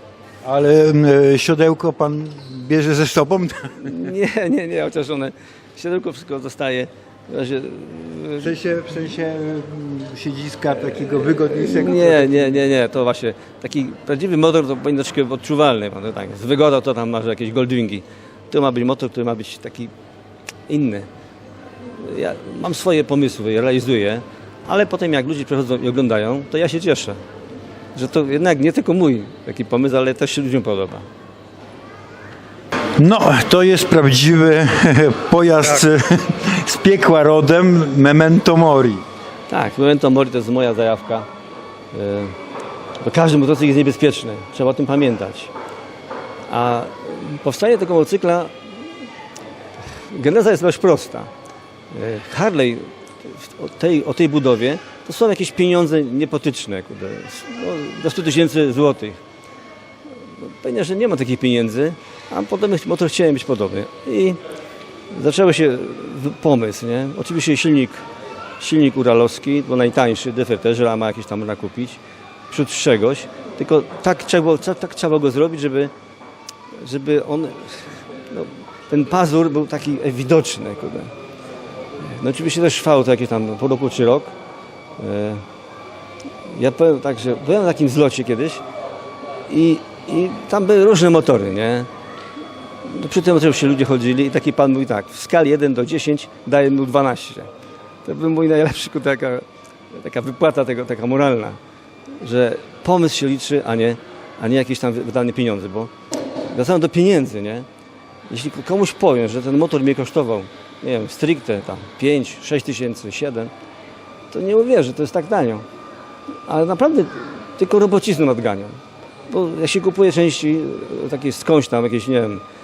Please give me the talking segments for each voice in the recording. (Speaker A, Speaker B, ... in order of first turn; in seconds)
Speaker A: 0.4-3.9, 8.4-12.6, 33.0-39.0
Speaker B: 3.8-8.5, 11.0-19.9, 20.7-21.1, 21.8-27.2, 27.9-31.1, 39.5-41.3, 41.9-42.4, 43.0-45.5, 46.5-48.7, 50.1-51.3, 51.9-59.2, 60.4-64.4, 65.1-68.0, 68.6-75.9, 76.8-81.1, 82.0-84.3, 85.0-85.4, 86.5-88.6, 89.5-91.9, 92.8-97.5, 98.0-101.6, 102.2-105.9, 106.5-107.7, 108.3-113.5, 114.3-115.6, 116.5-122.4